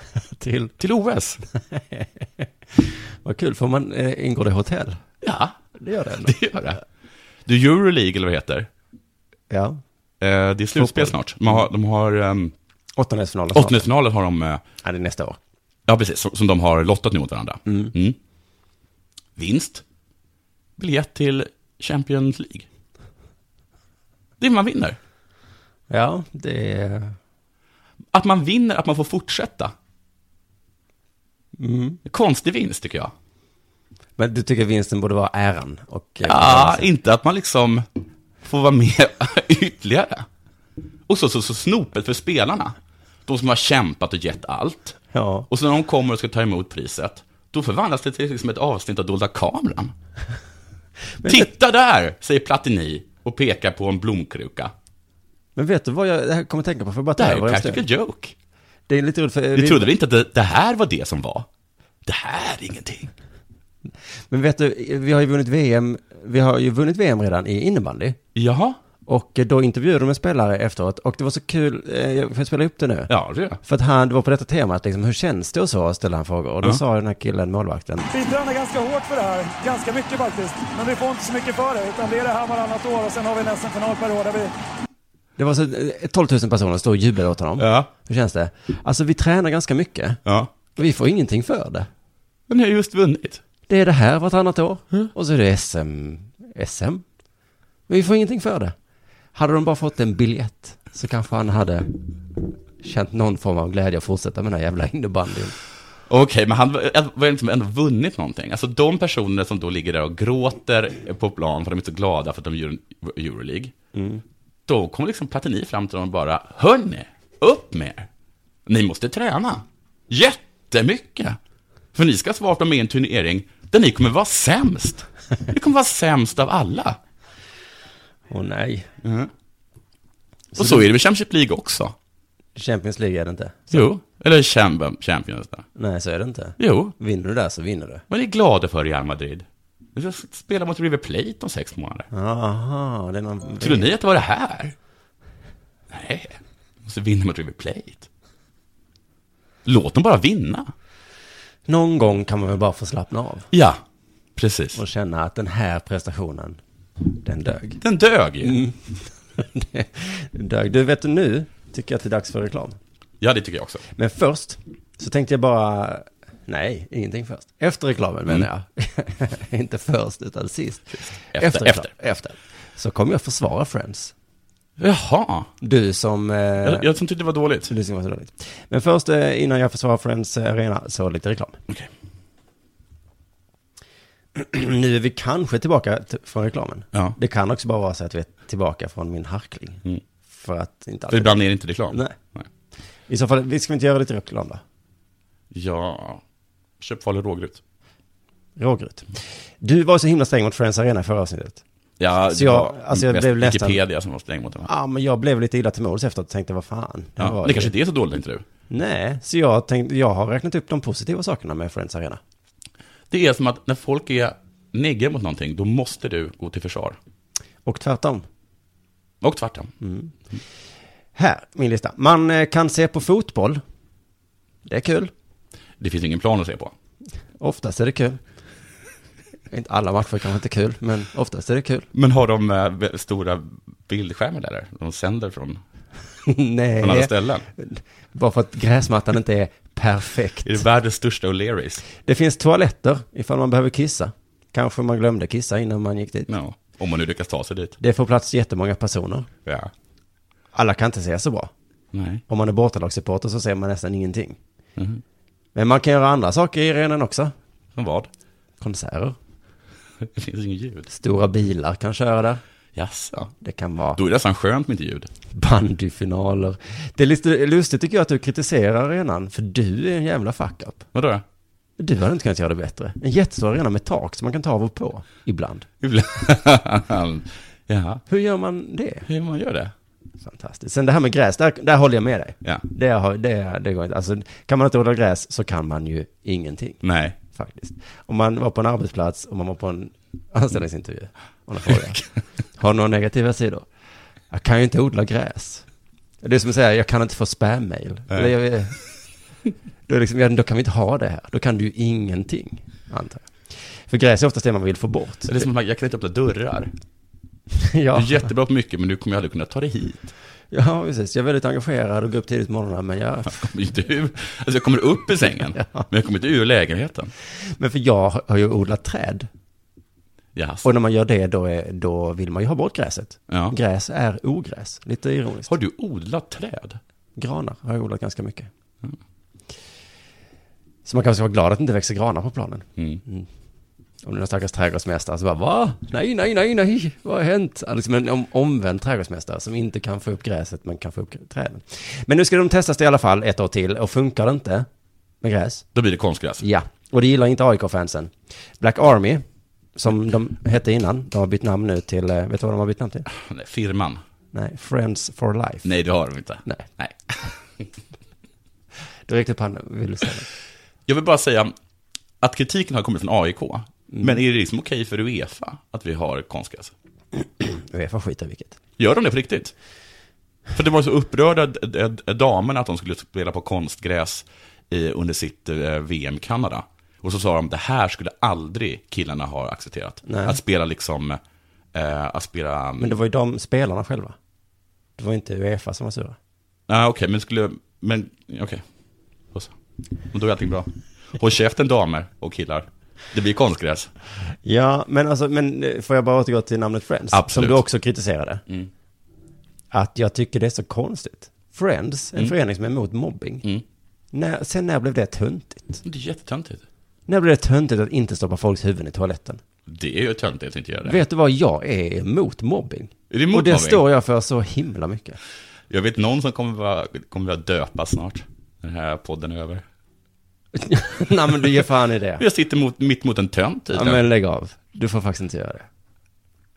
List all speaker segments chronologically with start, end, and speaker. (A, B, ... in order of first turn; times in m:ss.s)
0:00.3-0:00.7 A
0:00.8-0:01.4 B
0:01.7-0:05.0 A
0:05.2-0:05.6 B
0:05.8-0:06.7 A
0:06.2-0:06.8 B
0:07.5-0:08.7 B
0:09.5-0:09.8 A
0:10.2-0:12.5 B
0:10.7-0:11.6 A
0:13.0-0:13.9 A
0:13.5-0:14.6 B
0:14.8-0:15.4 A
0:15.9-0:18.2 B
0:17.7-0:17.9 A
0:19.4-0:19.8 B
0:20.8-0:22.7 B
0:24.4-0:25.0 B
0:25.9-0:27.2 A
0:28.1-0:29.7 B
0:31.6-0:32.0 A
0:32.1-0:33.1 B
0:34.2-0:36.9 A
0:36.2-0:37.8 B
0:38.4-0:40.3 B
0:41.1-0:42.8 B
0:43.3-0:45.0 B
0:45.1-0:45.5 A
0:45.5-0:49.9 B
0:51.2-0:51.5 A
0:51.2-0:54.7 B
0:55.6-0:57.8 A
0:57.2-0:58.4 B
0:58.9-0:59.9 A
0:59.6-1:01.5 B
1:02.1-1:03.1 B
1:04.3-1:08.2 A
1:08.4-1:08.8 B
1:09.1-1:13.1 A
1:13.1-1:13.6 B
1:13.6-1:18.1 A
1:18.1-1:24.5 C
1:25.4-1:30.2 A
1:27.6-1:27.9 B
1:30.3-1:30.5 B
1:30.8-1:31.9 A
1:32.5-1:33.4 B
1:33.7-1:37.0 A
1:37.9-1:38.7 A
1:39.3-1:41.9 A
1:42.8-1:45.6 A
1:46.1-1:53.7 B
1:54.0-1:54.2 A
1:54.7-1:58.1 B
1:58.7-2:01.4 B
2:02.0-2:07.0 B
2:08.3-2:08.9 A
2:09.0-2:09.3 B
2:10.6-2:10.9 A
2:10.6-2:12.0 B
2:12.6-2:13.9 A
2:13.7-2:15.7 B
2:15.8-2:18.0 A
2:16.6-2:16.9 B
2:18.1-2:22.1 B
2:22.1-2:23.9 A
2:23.6-2:24.8 B
2:25.9-2:28.1 B
2:29.7-2:30.7 B
2:31.7-2:33.5 A
2:33.5-2:33.8 B
2:34.4-2:34.8 B
2:34.8-2:36.6 A
2:37.2-2:37.8 A
2:37.8-2:38.6 B
2:38.4-2:42.8 A
2:43.2-2:43.8 B
2:44.0-2:54.1 A
2:51.0-2:51.9 B
2:54.8-2:55.5 B
2:55.6-2:56.9 A
2:56.6-2:57.7 B
2:57.7-3:01.6 A
3:04.4-3:12.2 A
3:11.1-3:12.5 B
3:13.1-3:14.6 A
3:15.5-3:16.2 B
3:16.8-3:17.6 B
3:18.6-3:21.6 A
3:22.0-3:24.7 B
3:22.3-3:23.8 A
3:24.7-3:27.7 A
3:27.2-3:28.4 B
3:28.7-3:32.2 A
3:33.1-3:37.0 B
3:37.6-3:38.2 A
3:39.2-3:39.7 B
3:39.8-3:40.1 A
3:41.2-3:43.6 A
3:44.7-3:45.1 A
3:45.8-3:46.7 B
3:47.4-3:48.2 A
3:49.5-3:51.9 A
3:51.9-3:55.6 B
3:56.3-4:00.6 A
3:56.8-3:57.5 B
4:00.4-4:01.9 B
4:02.0-4:06.3 A
4:06.3-4:07.8 B
4:07.8-4:09.3 A
4:09.5-4:09.7 B
4:10.5-4:11.5 A
4:11.9-4:12.2 B
4:12.3-4:14.4 A
4:14.8-4:15.0 B
4:15.6-4:17.3 A
4:17.8-4:18.1 B
4:18.6-4:19.2 A
4:20.0-4:20.9 B
4:20.9-4:22.4 A
4:22.8-4:23.3 B
4:23.4-4:24.0 A
4:24.0-4:25.1 B
4:25.3-4:30.9 A
4:30.9-4:31.2 B
4:31.8-4:35.7 A
4:35.8-4:38.0 B
4:38.1-4:39.1 A
4:39.1-4:39.7 B
4:40.2-4:52.0 A
4:46.8-4:47.2 B
4:52.6-4:53.7 A
4:54.3-4:55.7 A
4:56.2-4:58.8 A
4:59.9-5:05.4 A
5:05.3-5:06.7 B
5:07.6-5:08.3 A
5:07.9-5:10.1 B
5:10.5-5:13.4 A
5:13.3-5:17.1 B
5:15.6-5:15.8 A
5:17.4-5:19.3 A
5:20.4-5:20.7 B
5:20.6-5:25.5 A
5:23.3-5:23.6 B
5:25.5-5:26.8 B
5:27.2-5:28.5 A
5:30.8-5:33.3 A
5:34.0-5:44.7 A
5:45.2-5:45.7 A
5:45.8-5:46.4 B
5:46.4-5:49.2 A
5:49.8-5:53.1 A
5:53.1-5:54.0 B
5:54.3-5:55.7 A
5:55.6-5:57.2 B
5:59.1-6:00.3 A
6:00.9-6:01.5 B
6:02.2-6:06.7 B
6:03.9-6:04.2 A
6:07.2-6:08.6 A
6:08.8-6:09.5 B
6:10.5-6:21.2 B
6:20.1-6:20.4 A
6:21.7-6:23.0 B
6:22.8-6:24.2 A
6:25.0-6:26.2 A
6:26.7-6:28.6 B
6:30.1-6:33.9 B
6:34.4-6:38.4 A
6:37.1-6:37.6 B
6:39.7-6:43.4 A
6:44.1-6:45.8 A
6:45.8-6:46.6 B
6:47.1-6:49.4 A
6:49.7-6:51.0 B
6:50.8-6:55.2 A
6:53.1-6:53.8 B
6:55.7-6:59.6 B
7:00.5-7:02.2 A
7:02.2-7:04.0 B
7:03.7-7:05.7 A